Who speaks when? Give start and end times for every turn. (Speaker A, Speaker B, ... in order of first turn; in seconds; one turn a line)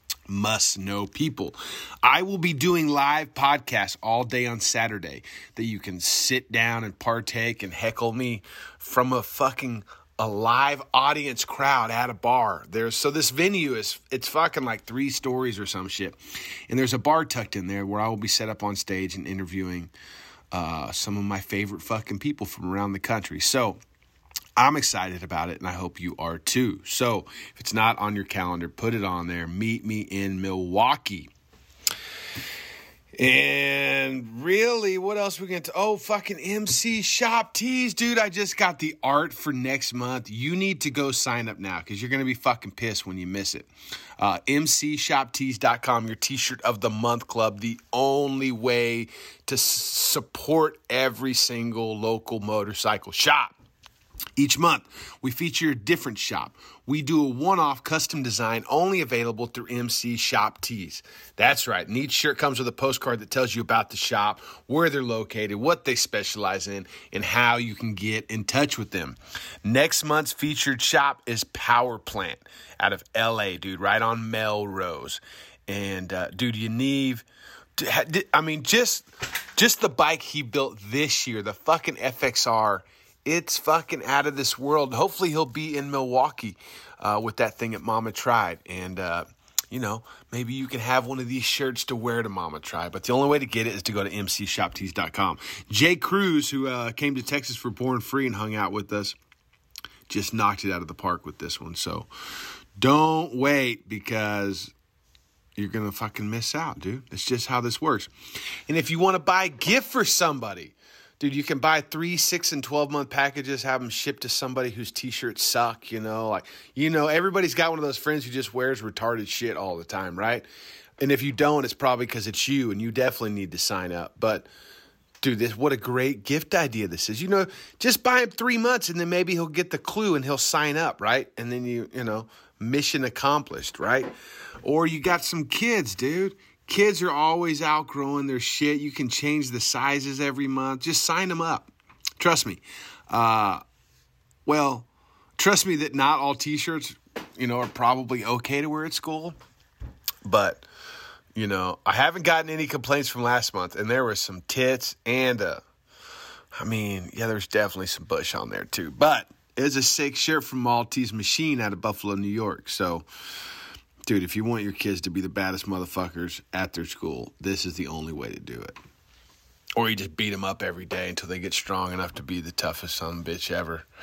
Speaker A: 0.3-19.9
Speaker A: 20.5-23.8
Speaker A: 24.6-31.3
Speaker A: 33.2-53.6
Speaker A: 54.4-77.3
Speaker A: 77.8-99.2
Speaker A: 100.1-104.7
Speaker A: 105.6-120.5
Speaker A: 121.0-124.5
Speaker A: 125.2-134.1
Speaker A: 134.6-143.6
Speaker A: 144.5-144.9
Speaker A: 145.4-149.4
Speaker A: 150.2-150.7
Speaker A: 151.3-155.6
Speaker A: 156.5-163.1
Speaker A: 164.1-168.8
Speaker A: 169.8-173.9